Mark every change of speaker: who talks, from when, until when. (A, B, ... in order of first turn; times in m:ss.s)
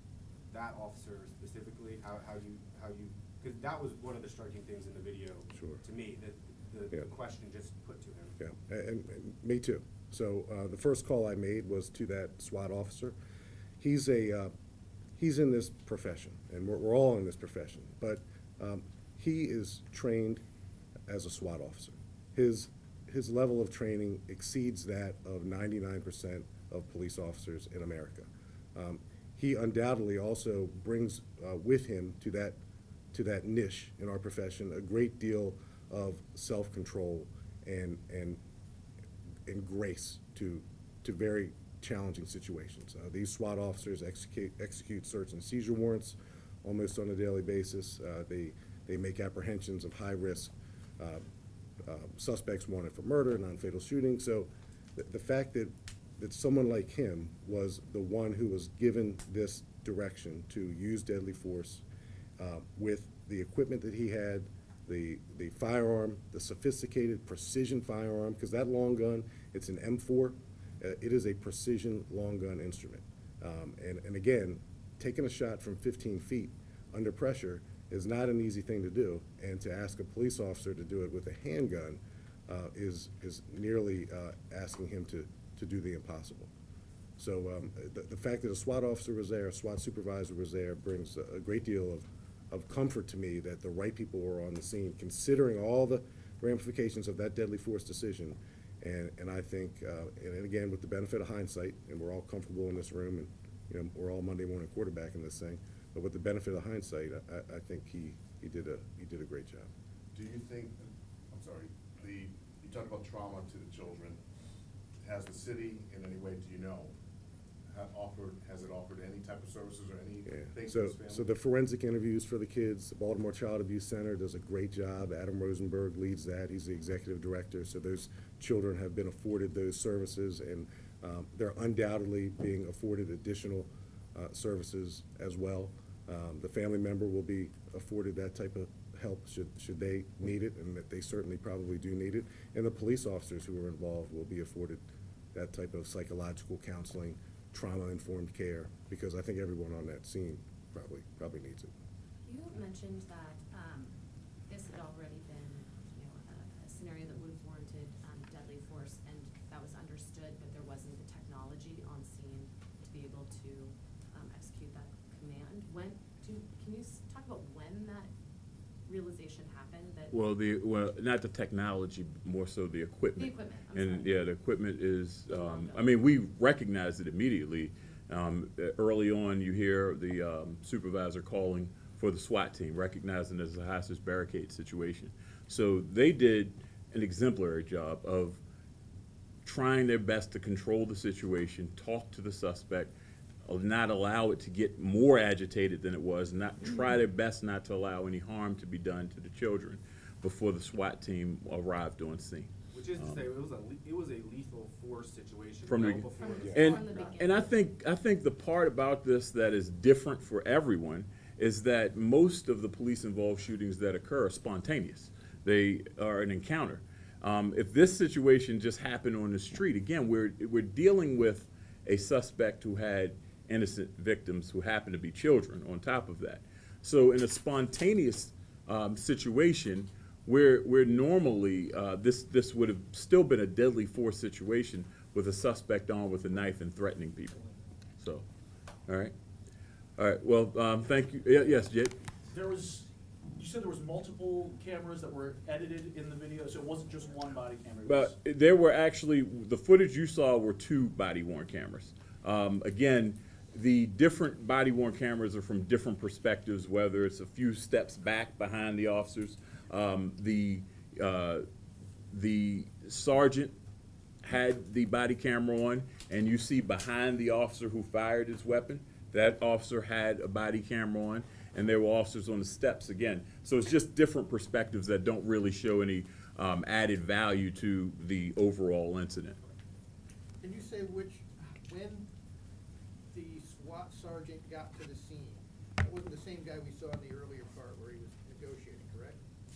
0:00.5-0:08.4 A
0:05.5-0:05.8 B
0:08.4-0:13.2 B
0:13.8-0:14.5 B
0:15.2-0:20.4 B
0:21.1-0:32.6 B
0:33.1-0:38.4 B
0:39.4-0:51.2 B
0:51.8-1:01.8 B
1:02.4-1:26.5 B
1:27.2-1:49.7 B
1:50.1-1:54.2 C
1:55.0-1:56.9 C
1:57.7-2:01.3 C
2:00.3-2:31.7 B
2:32.2-2:48.1 D
2:48.8-2:50.1 D
2:50.1-3:08.4 E
2:53.2-2:54.3 D
2:55.3-2:55.9 D
3:09.4-3:12.9 E
3:13.4-3:23.2 E
3:22.7-3:27.3 A
3:25.6-3:57.4 E
3:26.1-3:27.6 D
3:58.0-3:58.2 E
3:58.9-3:59.1 E
4:00.0-4:02.0 E
4:02.3-4:08.2 F
4:07.8-4:21.4 E
4:22.1-4:23.5 E
4:24.2-4:39.4 E
4:40.4-4:42.1 G
4:43.1-4:49.2 G